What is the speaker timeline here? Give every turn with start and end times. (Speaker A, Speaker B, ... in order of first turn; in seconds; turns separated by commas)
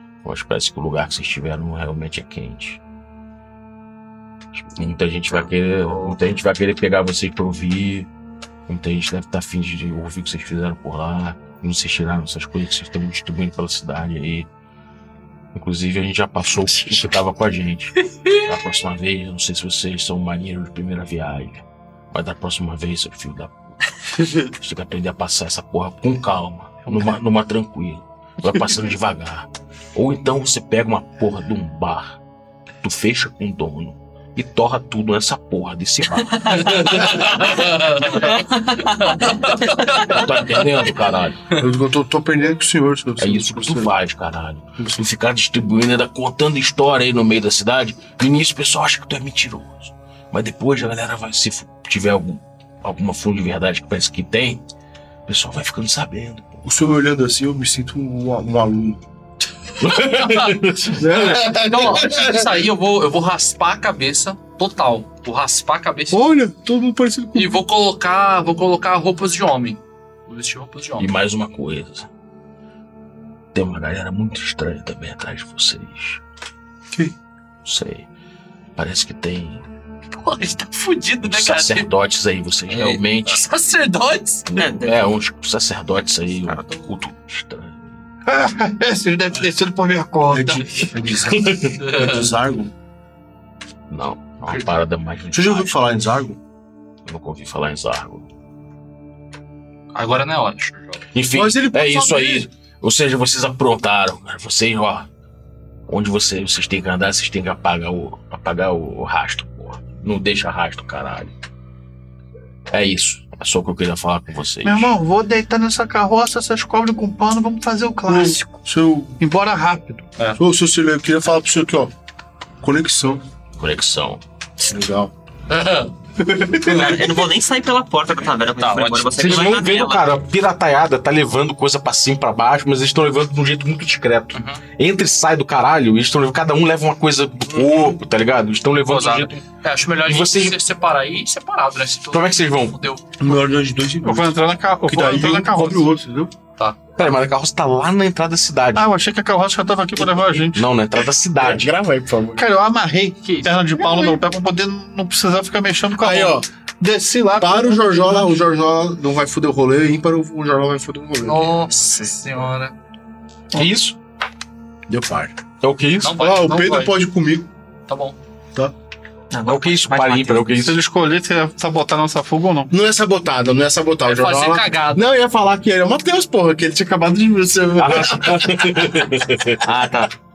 Speaker A: 0.2-2.8, Speaker A: 4.5-8.1, Speaker B: 5.3-6.2, Speaker A: 8.7-14.5, Speaker A: 15.5-23.6, Speaker A: 24.4-32.2, Speaker A: 32.8-37.4, Speaker B: 36.5-36.7, Speaker C: 36.5-40.8, Speaker B: 38.2-39.3, Speaker A: 39.9-41.5, Speaker D: 41.6-43.9, Speaker A: 43.2-54.6, Speaker A: 55.3-56.6, Speaker D: 56.6-59.0, Speaker A: 59.8-61.1, Speaker C: 59.8-66.2, Speaker D: 60.9-62.7, Speaker D: 66.1-67.6, Speaker C: 67.3-71.1, Speaker A: 71.0-72.1, Speaker A: 73.5-76.2, Speaker A: 77.6-78.1, Speaker A: 78.8-79.6, Speaker C: 80.1-81.9, Speaker A: 81.2-83.4, Speaker C: 83.2-84.5, Speaker A: 84.5-87.8, Speaker B: 84.6-85.0, Speaker B: 86.5-87.0, Speaker E: 88.3-90.9, Speaker D: 90.3-92.7, Speaker A: 91.3-91.7, Speaker C: 91.8-92.3, Speaker A: 93.9-95.8, Speaker D: 95.3-96.4, Speaker A: 97.1-98.3, Speaker C: 99.9-101.0, Speaker A: 101.1-105.1, Speaker D: 101.3-102.5, Speaker A: 105.9-111.3, Speaker A: 112.7-114.9, Speaker E: 114.6-118.6, Speaker D: 118.1-119.2, Speaker E: 119.2-120.1, Speaker D: 120.4-121.9, Speaker D: 122.6-123.2, Speaker A: 123.6-124.2, Speaker D: 124.6-125.1, Speaker C: 125.5-125.9, Speaker D: 126.2-127.2, Speaker B: 126.6-130.1, Speaker C: 128.6-129.6, Speaker A: 129.2-139.4, Speaker C: 134.3-134.6, Speaker C: 138.9-143.3, Speaker A: 140.0-140.6, Speaker A: 142.1-142.8, Speaker D: 143.2-146.3, Speaker E: 144.0-145.9, Speaker A: 147.0-148.9, Speaker E: 148.8-150.7, Speaker A: 150.5-151.7, Speaker D: 151.4-152.4, Speaker E: 152.4-158.3, Speaker C: 153.2-153.6, Speaker D: 153.8-154.2, Speaker D: 156.0-156.5, Speaker D: 157.4-161.7, Speaker C: 161.2-162.7, Speaker A: 163.5-164.0, Speaker D: 164.9-165.3, Speaker A: 165.6-166.2, Speaker C: 166.0-166.9, Speaker D: 166.1-167.5, Speaker C: 167.9-168.2, Speaker B: 169.3-170.6, Speaker A: 169.5-170.8, Speaker E: 170.6-172.7, Speaker D: 172.7-179.0, Speaker C: 174.1-175.1, Speaker A: 177.8-180.0, Speaker B: 179.6-180.1